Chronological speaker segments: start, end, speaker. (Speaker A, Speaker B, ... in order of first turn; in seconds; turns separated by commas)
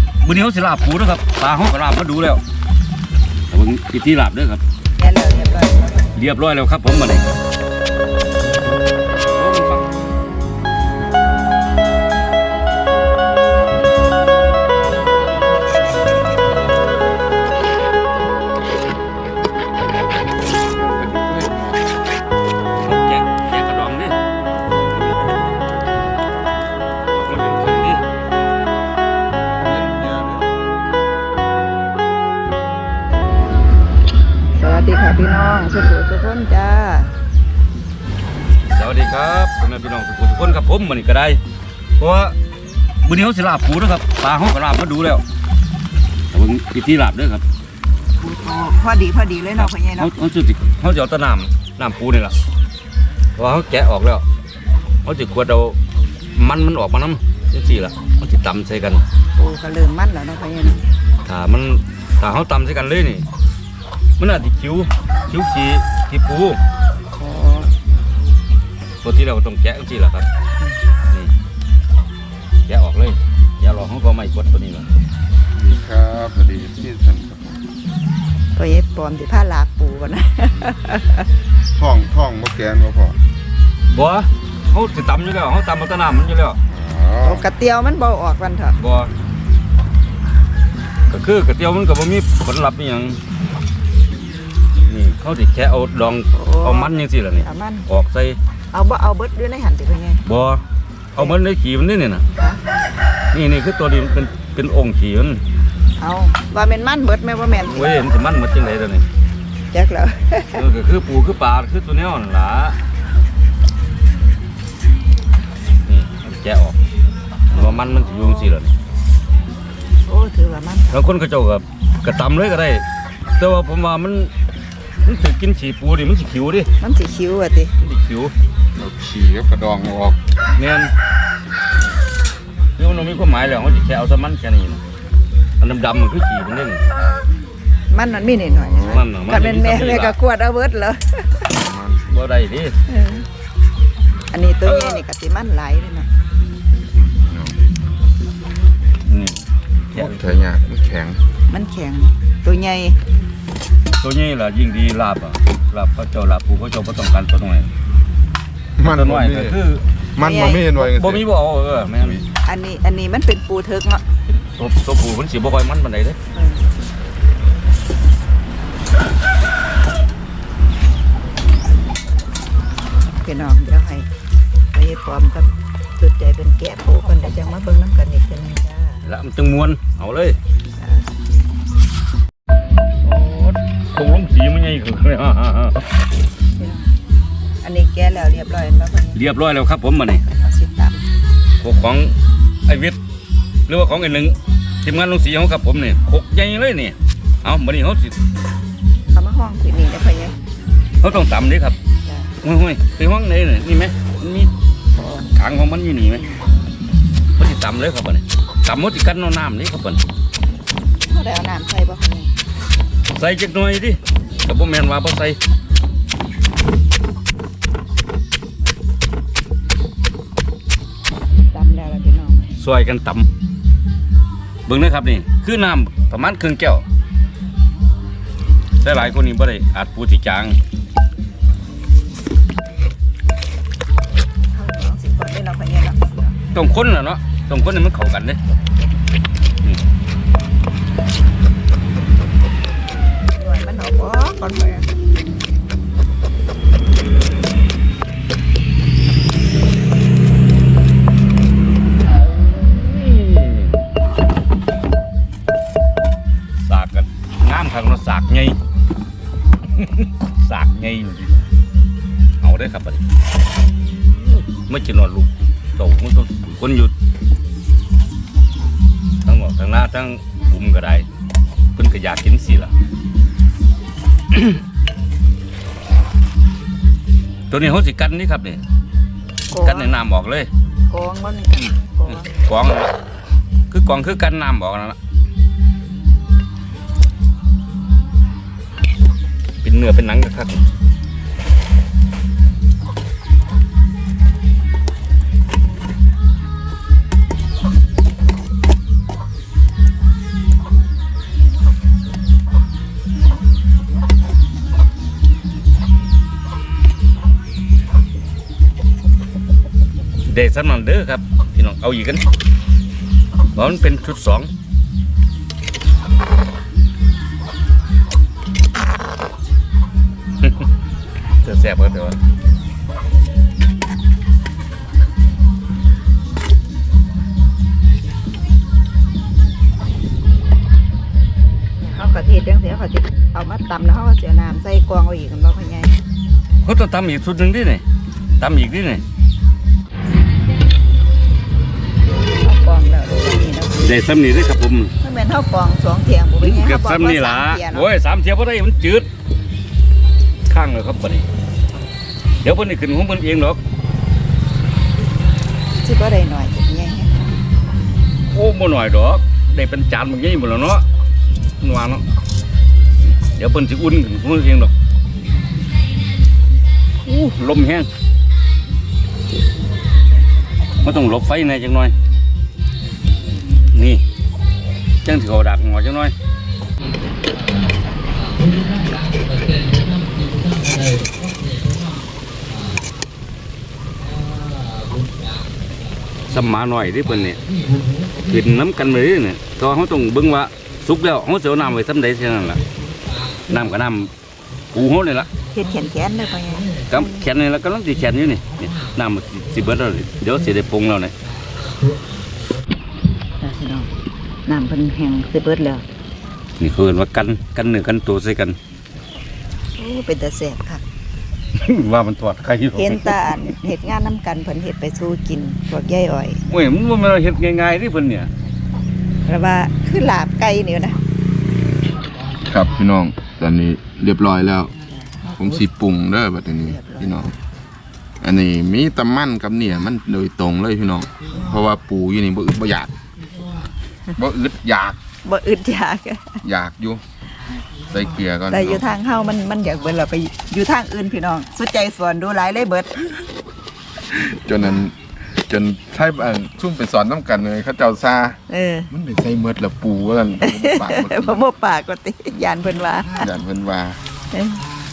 Speaker A: 0.2-2.4, Speaker A: 3.5-4.6, Speaker B: 5.0-6.1, Speaker A: 6.1-7.4, Speaker A: 9.4-10.1, Speaker C: 20.4-21.9, Speaker A: 22.8-24.1, Speaker A: 27.1-28.0, Speaker C: 29.6-30.5, Speaker B: 34.5-37.1, Speaker A: 38.7-41.4, Speaker A: 42.0-42.3, Speaker A: 43.0-45.2, Speaker A: 46.3-47.4, Speaker B: 48.2-50.1, Speaker A: 49.6-52.4, Speaker A: 53.4-54.2, Speaker A: 55.0-55.8, Speaker A: 56.3-59.0, Speaker B: 59.4-60.8, Speaker A: 61.2-63.2, Speaker A: 64.2-66.6, Speaker B: 67.1-67.7, Speaker A: 69.0-70.2, Speaker A: 72.7-74.9, Speaker C: 75.5-77.6, Speaker B: 78.5-81.3, Speaker C: 81.8-83.2, Speaker A: 83.9-86.6, Speaker C: 86.7-87.5, Speaker B: 87.2-88.8, Speaker A: 88.8-89.1, Speaker A: 91.1-93.2, Speaker A: 94.9-98.4, Speaker B: 96.3-97.9, Speaker B: 98.7-100.2, Speaker A: 100.2-100.6, Speaker A: 101.1-102.2, Speaker B: 102.3-102.6, Speaker A: 103.3-105.4, Speaker B: 106.0-107.9, Speaker A: 107.6-109.0, Speaker B: 109.7-110.6, Speaker A: 110.5-112.8, Speaker A: 115.8-116.8, Speaker B: 117.5-118.3, Speaker A: 117.5-118.7, Speaker B: 120.0-121.0, Speaker A: 120.9-122.8, Speaker A: 123.4-124.3, Speaker A: 125.0-126.7, Speaker B: 126.8-127.7, Speaker A: 127.8-128.3, Speaker C: 128.8-130.2, Speaker A: 130.6-130.9, Speaker A: 132.8-134.8, Speaker A: 135.6-136.8, Speaker B: 137.9-141.5, Speaker C: 138.5-139.1, Speaker A: 138.8-140.1, Speaker C: 141.5-142.1, Speaker A: 142.1-142.7, Speaker B: 142.9-143.2, Speaker B: 144.3-146.1, Speaker A: 144.7-145.0, Speaker C: 146.9-147.6, Speaker A: 149.0-150.3, Speaker C: 149.9-151.2, Speaker B: 151.5-153.0, Speaker A: 154.0-157.7, Speaker C: 158.8-159.6, Speaker A: 158.8-159.8, Speaker C: 160.2-161.2, Speaker B: 160.2-160.7, Speaker A: 160.7-162.2, Speaker C: 162.0-162.2, Speaker B: 162.4-164.0, Speaker A: 164.3-166.2, Speaker B: 166.3-166.7, Speaker B: 173.2-174.1, Speaker B: 174.7-179.0, Speaker A: 179.0-180.4, Speaker B: 180.8-181.1, Speaker A: 183.0-185.8, Speaker B: 186.6-186.9, Speaker B: 187.6-189.2, Speaker A: 189.1-190.2, Speaker B: 190.2-191.0, Speaker A: 191.6-192.1, Speaker A: 192.7-193.0, Speaker A: 193.7-198.1, Speaker B: 199.1-200.3, Speaker A: 201.0-201.8, Speaker B: 202.1-202.3, Speaker A: 202.4-204.5, Speaker B: 204.9-205.3, Speaker A: 205.3-206.2, Speaker B: 206.1-206.5, Speaker A: 207.4-210.0, Speaker B: 211.1-212.3, Speaker A: 213.1-215.4, Speaker B: 221.5-222.5, Speaker A: 222.6-223.2, Speaker A: 224.7-226.8, Speaker A: 228.8-230.6, Speaker B: 234.5-236.3, Speaker A: 236.5-238.4, Speaker B: 243.4-244.9, Speaker A: 252.2-253.7, Speaker A: 256.6-258.6, Speaker A: 259.7-261.4, Speaker A: 262.4-263.0, Speaker A: 264.5-266.9, Speaker A: 269.2-271.1, Speaker A: 271.8-272.7, Speaker A: 277.5-278.6, Speaker B: 279.5-279.9, Speaker A: 279.5-280.5, Speaker B: 280.9-282.4, Speaker A: 282.1-282.9, Speaker A: 283.7-285.0, Speaker A: 289.6-290.6, Speaker A: 310.2-312.2, Speaker A: 313.5-314.5, Speaker A: 321.4-322.2, Speaker B: 331.9-335.9, Speaker A: 336.6-337.8, Speaker A: 338.4-339.0, Speaker B: 342.1-343.8, Speaker A: 343.8-344.9, Speaker B: 345.0-347.9, Speaker A: 346.4-349.1, Speaker A: 350.5-351.2, Speaker A: 352.4-353.6, Speaker B: 355.8-357.3, Speaker A: 358.3-360.8, Speaker A: 361.6-362.0, Speaker A: 363.3-364.7, Speaker A: 367.1-367.9, Speaker A: 370.8-371.9, Speaker A: 373.7-374.0, Speaker A: 375.0-376.1, Speaker A: 386.3-387.4, Speaker A: 388.3-392.6, Speaker A: 393.5-394.1, Speaker A: 394.7-395.3, Speaker B: 395.5-397.2, Speaker A: 396.9-401.1, Speaker B: 403.4-403.9, Speaker B: 404.4-405.8, Speaker A: 406.6-408.6, Speaker B: 409.8-410.8, Speaker A: 411.5-413.2, Speaker B: 412.8-416.4, Speaker A: 416.5-418.3, Speaker B: 419.2-421.0, Speaker C: 422.5-424.7, Speaker B: 425.0-425.3, Speaker C: 425.2-427.3, Speaker B: 426.6-427.3, Speaker C: 428.2-432.9, Speaker C: 434.2-435.0, Speaker B: 435.2-436.4, Speaker C: 436.4-437.0, Speaker C: 437.9-438.8, Speaker B: 438.5-443.2, Speaker C: 444.1-444.9, Speaker C: 445.5-448.4, Speaker B: 448.5-448.9, Speaker C: 448.9-451.4, Speaker B: 450.4-453.3, Speaker C: 453.2-454.0, Speaker B: 454.3-454.6